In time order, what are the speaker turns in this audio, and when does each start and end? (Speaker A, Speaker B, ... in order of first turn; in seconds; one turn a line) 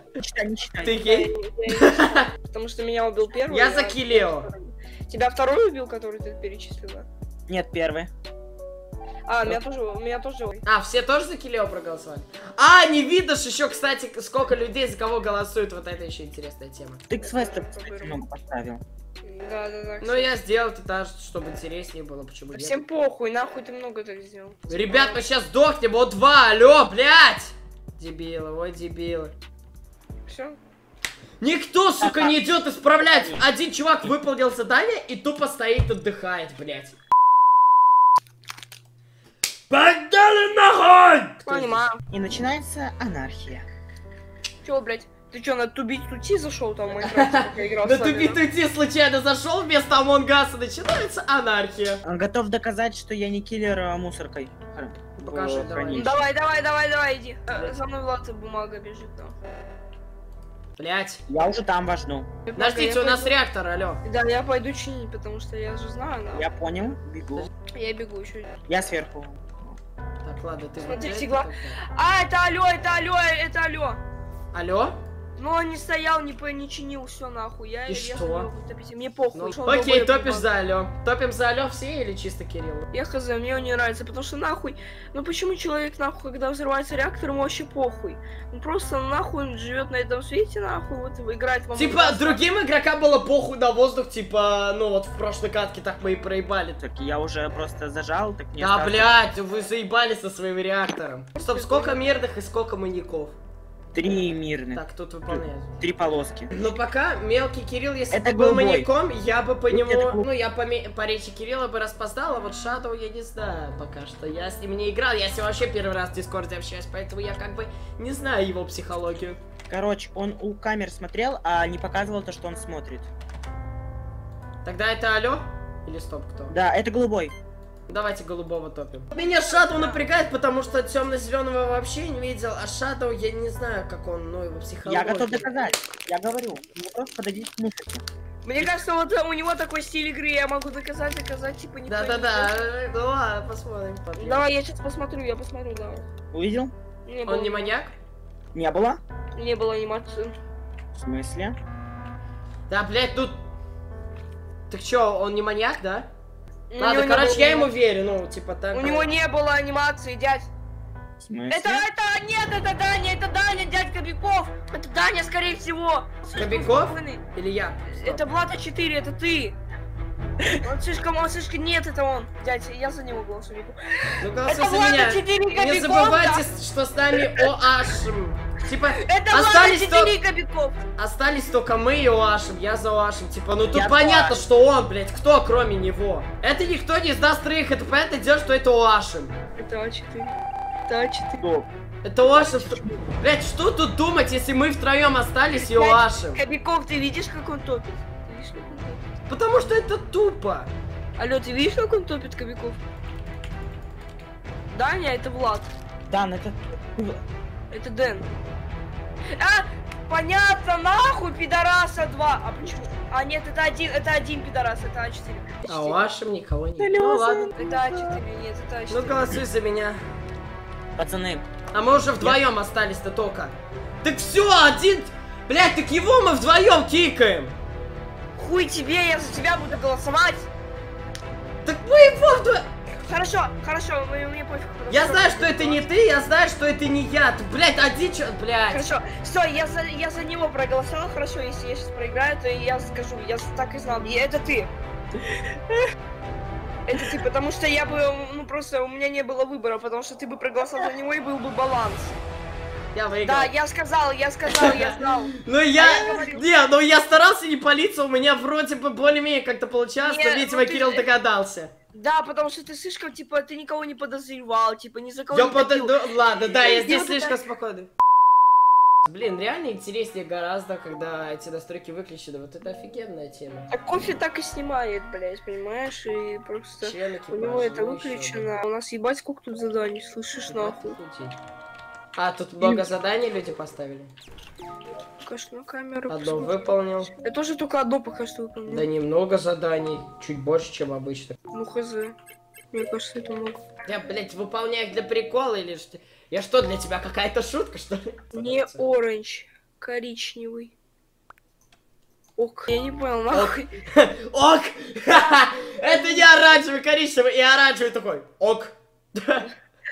Speaker A: 0.2-1.1
Speaker B: 0.8-2.3
Speaker C: 1.0-7.1
Speaker B: 3.5-4.5
Speaker A: 7.5-8.1
Speaker C: 9.3-10.6
Speaker B: 10.7-17.1
Speaker A: 17.1-18.8
Speaker C: 17.1-18.2
Speaker C: 19.2-20.3
Speaker B: 20.0-22.8
Speaker C: 22.5-25.2
Speaker B: 24.7-29.3
Speaker C: 30.3-30.6
Speaker B: 31.4-37.0
Speaker A: 32.0-32.4
Speaker A: 33.0-33.4
Speaker B: 39.7-41.8
Speaker C: 41.5-42.0
Speaker A: 42.1-43.7
Speaker C: 44.6-48.4
Speaker B: 47.0-52.0
Speaker A: 52.0-56.2
Speaker B: 55.2-56.2
Speaker C: 55.9-59.4
Speaker B: 60.8-61.2
Speaker A: 61.3-62.3
Speaker C: 62.5-63.4
Speaker B: 62.6-64.0
Speaker C: 64.0-66.5
Speaker A: 66.3-67.5
Speaker C: 67.7-68.6
Speaker A: 68.7-69.8
Speaker B: 70.2-71.8
Speaker C: 70.8-74.0
Speaker B: 74.5-75.0
Speaker C: 75.4-80.5
Speaker B: 77.9-78.5
Speaker B: 79.3-82.9
Speaker C: 82.9-92.4
Speaker B: 91.8-96.8
Speaker A: 96.8-99.1
Speaker B: 98.6-103.4
Speaker C: 101.4-102.0
Speaker A: 103.9-106.7
Speaker B: 104.7-105.8
Speaker B: 106.5-119.4
Speaker A: 108.1-108.9
Speaker A: 109.7-110.3
Speaker A: 119.7-123.1
Speaker B: 124.6-126.6
Speaker A: 126.5-127.3
Speaker B: 127.9-135.7
Speaker C: 129.1-130.0
Speaker A: 134.8-138.1
Speaker C: 138.4-142.6
Speaker B: 141.9-144.4
Speaker C: 144.2-146.1
Speaker A: 146.3-146.7
Speaker C: 147.1-147.8
Speaker B: 147.3-147.9
Speaker A: 148.5-149.0
Speaker C: 149.4-150.3
Speaker A: 150.9-151.6
Speaker B: 152.7-153.4
Speaker B: 154.7-156.1
Speaker C: 156.7-157.7
Speaker B: 156.8-159.1
Speaker C: 158.7-160.5
Speaker A: 161.2-161.9
Speaker C: 161.5-167.2
Speaker B: 166.3-168.2
Speaker C: 167.9-169.6
Speaker C: 170.6-176.5
Speaker B: 174.2-180.1
Speaker C: 178.9-180.8
Speaker B: 181.0-189.3
Speaker A: 183.7-184.5
Speaker C: 189.6-191.5
Speaker A: 191.4-191.7
Speaker B: 192.0-196.4
Speaker C: 192.3-192.9
Speaker C: 195.6-199.1
Speaker B: 199.3-200.7
Speaker C: 201.2-202.8
Speaker C: 204.7-205.7
Speaker A: 206.1-207.2
Speaker C: 207.7-208.3
Speaker C: 209.4-216.0
Speaker B: 215.7-217.5
Speaker A: 216.8-218.1
Speaker C: 217.6-219.4
Speaker B: 218.9-220.0
Speaker A: 221.0-221.5
Speaker B: 221.7-227.6
Speaker C: 228.4-230.5
Speaker B: 231.6-232.6
Speaker C: 233.1-235.9
Speaker B: 234.9-238.9
Speaker C: 238.7-244.7
Speaker C: 246.9-252.2
Speaker B: 252.9-253.5
Speaker C: 253.2-256.5
Speaker B: 254.5-261.7
Speaker C: 260.0-261.1
Speaker C: 261.9-267.4
Speaker B: 265.3-267.9
Speaker B: 269.0-273.7
Speaker C: 273.7-281.0
Speaker B: 276.8-278.6
Speaker B: 280.4-281.4
Speaker B: 282.2-284.1
Speaker C: 285.2-288.9
Speaker B: 286.1-287.1
Speaker B: 288.7-291.4
Speaker C: 291.5-292.2
Speaker C: 292.7-293.6
Speaker B: 293.9-298.8
Speaker C: 298.3-300.7
Speaker C: 302.4-303.7
Speaker B: 303.3-309.5